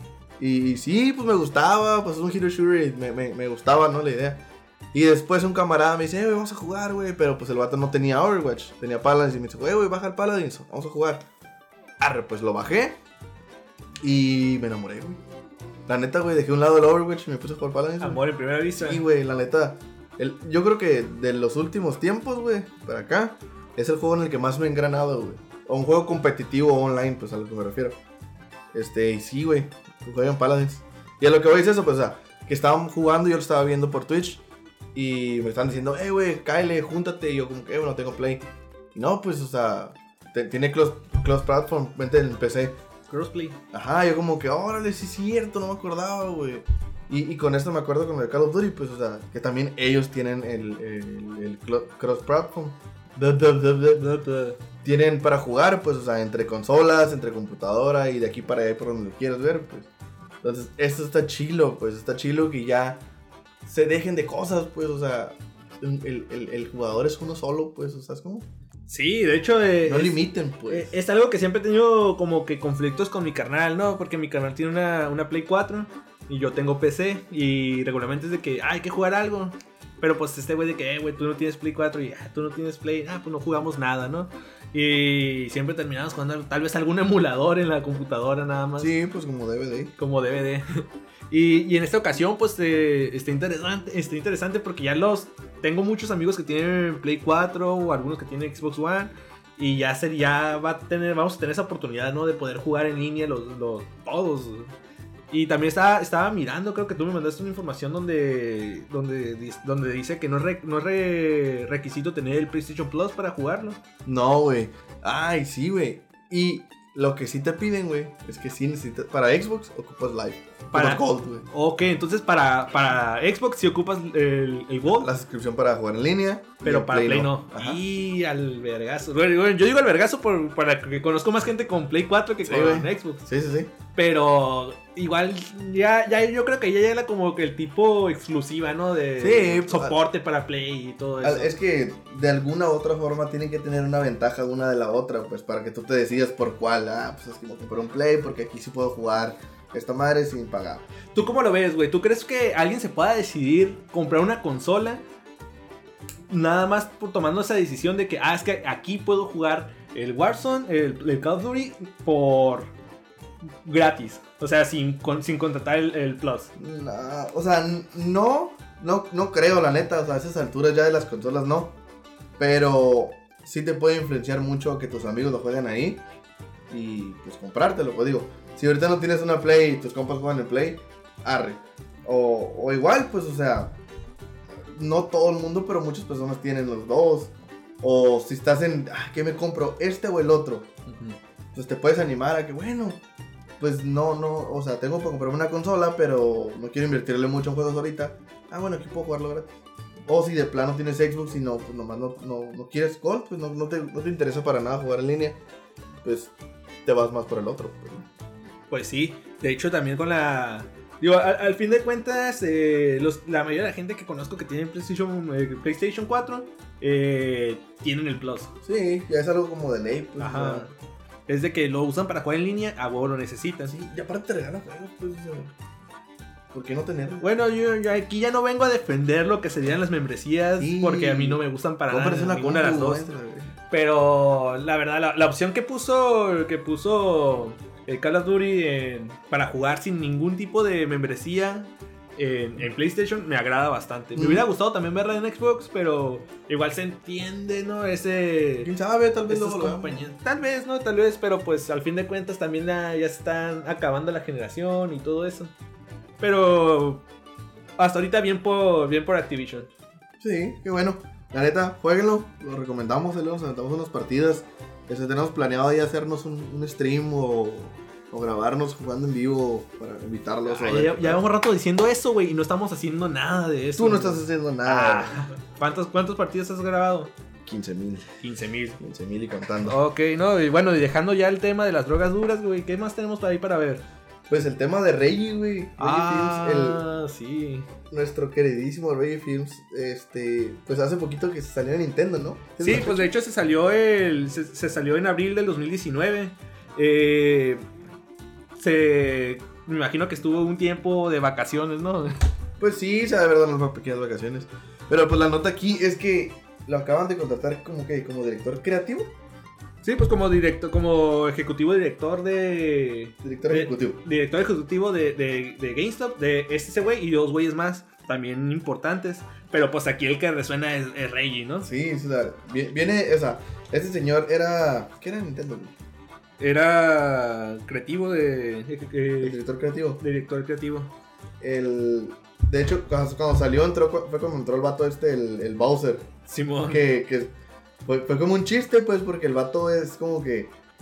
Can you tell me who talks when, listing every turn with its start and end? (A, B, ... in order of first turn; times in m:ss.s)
0:00.4-0:04.4 A
0:04.9-0:11.2 A
0:12.0-0:13.0 A
0:14.0-0:15.2 A
0:15.8-0:28.0 A
0:18.0-0:19.0 B
0:28.7-0:34.4 A
0:34.9-0:42.8 A
0:43.1-0:43.6 B
0:43.7-0:54.1 A
0:53.9-0:54.6 B
0:54.8-0:59.9 A
1:00.4-1:03.0 A
1:03.6-1:08.5 A
1:08.9-1:28.9 B
1:09.8-1:10.9 A
1:28.8-1:29.9 A
1:30.0-1:44.7 B
1:45.3-1:53.8 B
1:54.0-2:01.5 A
2:00.7-2:05.1 B
2:05.0-2:07.8 A
2:06.6-2:13.2 B
2:12.4-2:13.7 A
2:13.9-2:21.6 B
2:19.2-2:20.0 A
2:21.2-2:30.8 A
2:31.1-2:35.0 B
2:36.3-2:42.7 B
2:43.6-2:46.5 B
2:46.6-2:51.8 A
2:52.4-2:56.0 A
2:56.7-3:03.8 A
3:04.7-3:10.7 A
3:10.9-3:11.2 B
3:11.5-3:13.0 A
3:13.6-3:19.5 A
3:20.0-3:25.4 A
3:26.0-3:26.3 A
3:26.8-3:28.1 A
3:28.7-3:38.5 B
3:38.6-3:40.7 A
3:40.2-3:40.7 B
3:41.3-3:43.7 B
3:43.7-3:45.5 A
3:46.5-3:47.2 A
3:47.2-3:53.0 B
3:50.6-3:53.5 A
3:53.7-4:08.7 B
4:04.1-4:04.5 A
4:08.6-4:10.0 A
4:09.3-4:15.5 B
4:16.2-4:17.0 B
4:17.8-4:19.7 B
4:20.2-4:31.2 A
4:30.4-4:37.1 B
4:33.8-4:35.2 A
4:37.4-4:38.1 A
4:38.2-4:38.8 B
4:38.8-4:39.8 A
4:39.6-4:43.8 B
4:44.3-4:46.8 A
4:45.8-4:47.7 B
4:47.9-4:53.1 A
4:52.6-4:57.6 B
4:58.6-5:02.2 B
5:02.6-5:09.1 A
5:09.8-5:21.7 B
5:13.2-5:14.0 A
5:21.6-5:25.7 A
5:26.4-5:29.4 B
5:29.2-5:30.0 A
5:30.0-5:30.9 B
5:31.4-5:36.1 A
5:36.2-5:36.8 B
5:36.6-5:37.3 A
5:37.8-5:40.5 A